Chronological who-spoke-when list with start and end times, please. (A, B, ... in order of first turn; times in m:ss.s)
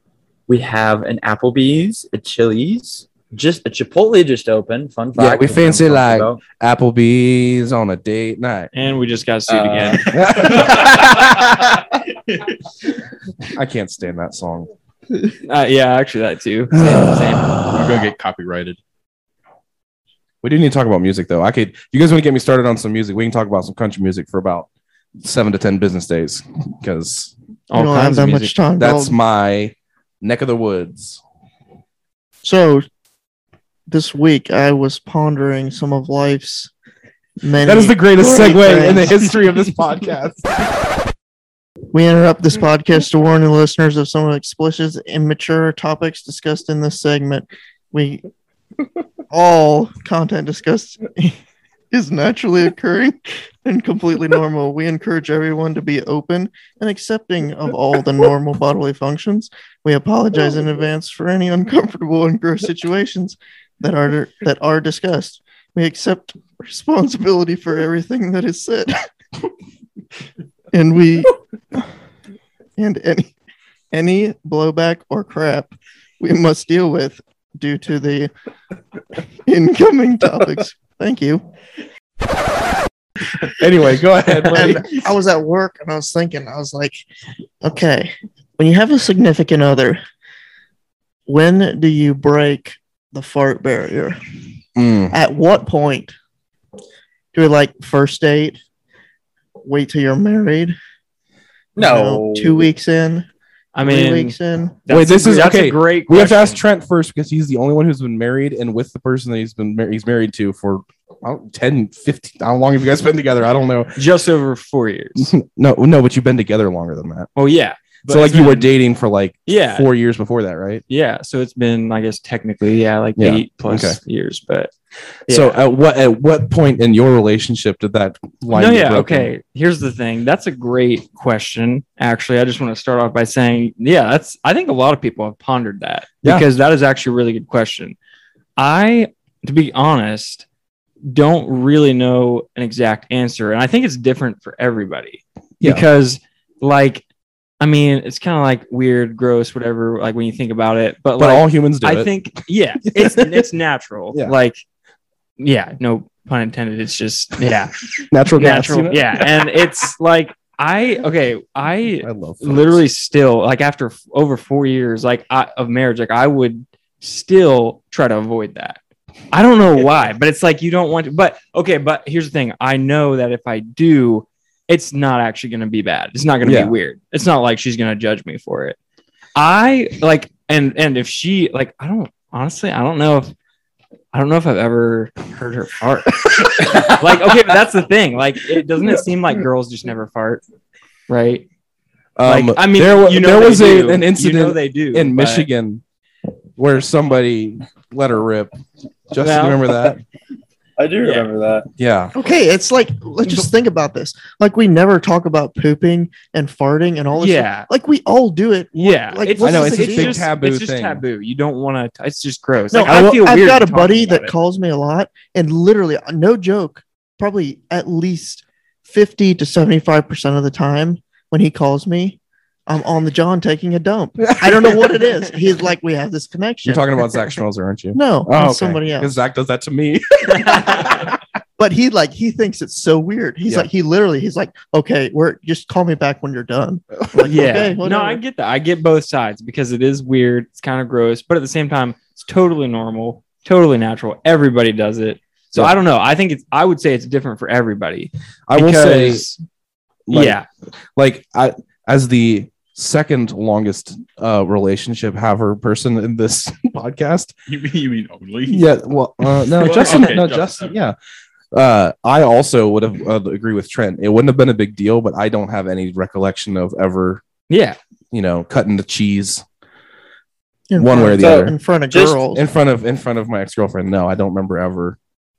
0:00.5-0:06.4 A
0:05.2-0:08.7 B
0:08.7-0:10.6 C
0:09.5-0:10.2 A
0:10.1-0:11.6 B
0:10.4-0:11.0 D
0:13.5-0:14.7 B
0:15.4-0:17.6 C
0:16.7-0:18.1 B
0:17.7-0:18.8 D
0:20.4-0:24.7 B
0:25.2-0:27.3 B
0:27.7-0:28.6 C
0:27.7-0:29.2 E
0:28.8-0:31.2 B
0:32.4-0:32.9 E
0:33.9-0:36.7 E
0:37.4-0:39.2 E
0:37.6-0:40.6 B
0:41.9-0:48.2 E
0:49.3-0:51.4 E
0:51.9-1:09.1 E
1:10.7-1:11.8 E
1:12.8-1:13.3 E
1:13.9-1:18.3 E
1:19.5-1:21.4 E
1:23.4-1:25.0 B
1:24.5-1:27.0 E
1:27.6-1:30.0 E
1:31.3-1:34.2 E
1:34.8-1:35.2 B
1:35.1-1:36.1 E
1:37.3-1:38.6 E
1:39.6-1:40.8 E
1:41.8-1:42.7 A
1:41.8-1:43.3 E
1:43.8-1:46.6 C
1:43.8-1:44.8 E
1:44.9-1:54.0 B
1:54.0-1:55.3 C
1:55.2-1:57.3 B
1:57.4-1:58.7 C
1:58.1-2:00.8 B
1:59.5-1:59.9 C
2:00.9-2:04.7 C
2:03.2-2:04.0 B
2:05.3-2:05.6 C
2:05.3-2:09.3 B
2:08.5-2:18.0 C
2:18.6-2:20.5 C
2:21.0-2:27.0 C
2:27.6-2:34.6 C
2:31.2-2:32.1 B
2:32.9-2:33.4 B
2:35.4-2:37.8 C
2:38.1-2:39.3 B
2:38.4-2:48.8 C
2:42.0-2:42.8 B
2:49.3-2:58.8 C
2:56.4-2:56.7 B
2:59.4-3:03.3 C
3:04.1-3:10.4 C
3:11.1-3:11.5 C
3:12.2-3:15.8 B
3:12.2-3:15.5 C
3:16.6-3:18.5 B
3:19.1-3:20.0 B
3:19.2-3:19.7 C
3:20.8-3:21.7 A
3:21.0-3:21.3 C
3:21.8-3:22.1 B
3:22.1-3:30.3 E
3:27.2-3:27.7 C
3:28.8-3:34.3 C
3:29.4-3:31.0 B
3:32.7-3:47.0 E
3:44.2-3:45.1 B
3:46.6-3:51.2 B
3:47.9-3:49.2 E
3:51.6-3:58.2 E
3:57.2-4:09.4 C
4:08.5-4:09.2 B
4:10.1-4:10.4 B
4:10.1-4:10.5 C
4:11.0-4:17.3 B
4:17.5-4:18.7 D
4:18.5-4:21.0 B
4:19.5-4:20.7 D
4:19.8-4:20.1 C
4:21.5-4:27.2 B
4:27.5-4:27.8 C
4:28.1-4:29.4 B
4:30.7-4:32.5 E
4:30.8-4:31.6 B
4:31.2-4:32.2 A
4:32.2-4:35.0 B